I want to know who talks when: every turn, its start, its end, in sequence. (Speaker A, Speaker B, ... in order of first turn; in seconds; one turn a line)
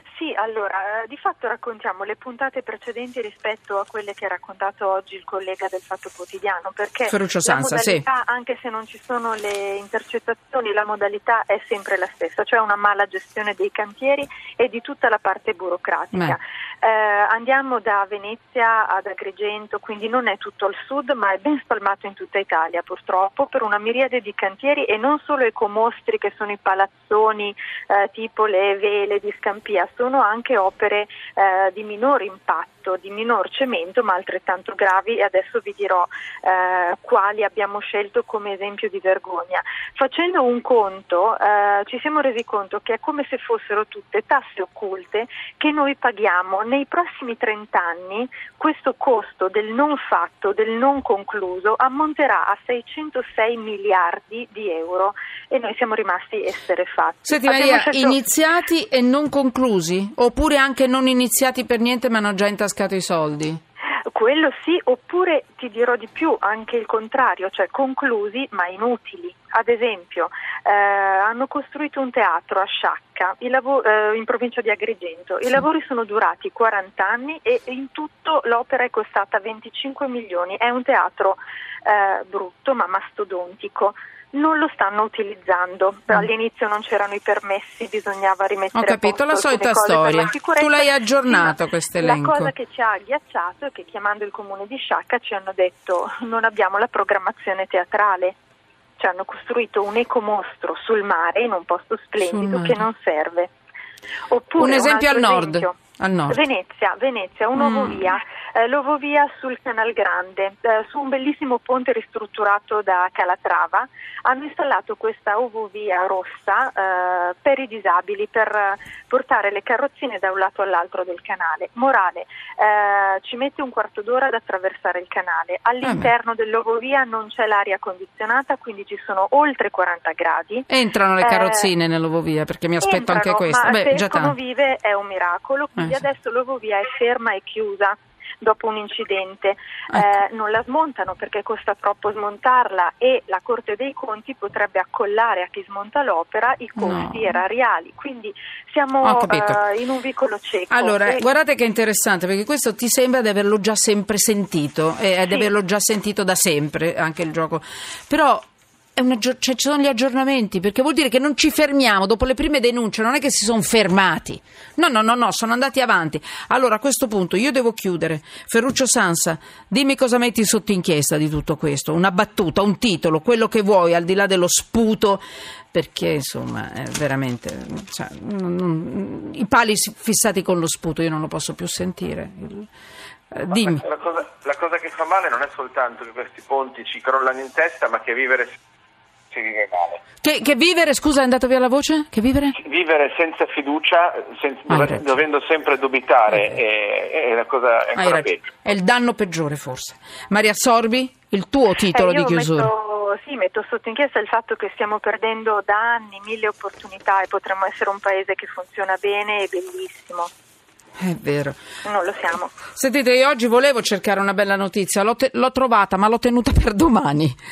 Speaker A: 0.1-58.2
Speaker B: 7.1-8.1
Speaker B: 57.2-63.6
Speaker A: 64.1-98.4
Speaker B: 88.7-92.5
Speaker A: 99.0-103.5
Speaker B: 102.2-102.9
Speaker A: 104.3-105.8
Speaker B: 104.6-106.4
Speaker A: 106.3-130.7
Speaker B: 107.5-108.0
Speaker B: 125.8-126.1
Speaker B: 130.7-134.4
Speaker A: 131.2-131.7
Speaker A: 132.8-151.3
Speaker B: 135.8-136.0
Speaker B: 139.9-140.2
Speaker B: 146.8-147.4
Speaker B: 149.0-149.6
Speaker B: 150.7-182.7
Speaker B: 183.3-183.8
Speaker C: 183.5-188.6
Speaker C: 189.3-190.0
Speaker B: 190.2-192.6
Speaker C: 192.6-198.5
Speaker B: 194.7-195.0
Speaker B: 197.9-202.7
Speaker A: 201.9-210.3
Speaker B: 211.0-211.6
Speaker A: 211.8-212.7
Speaker B: 212.7-217.4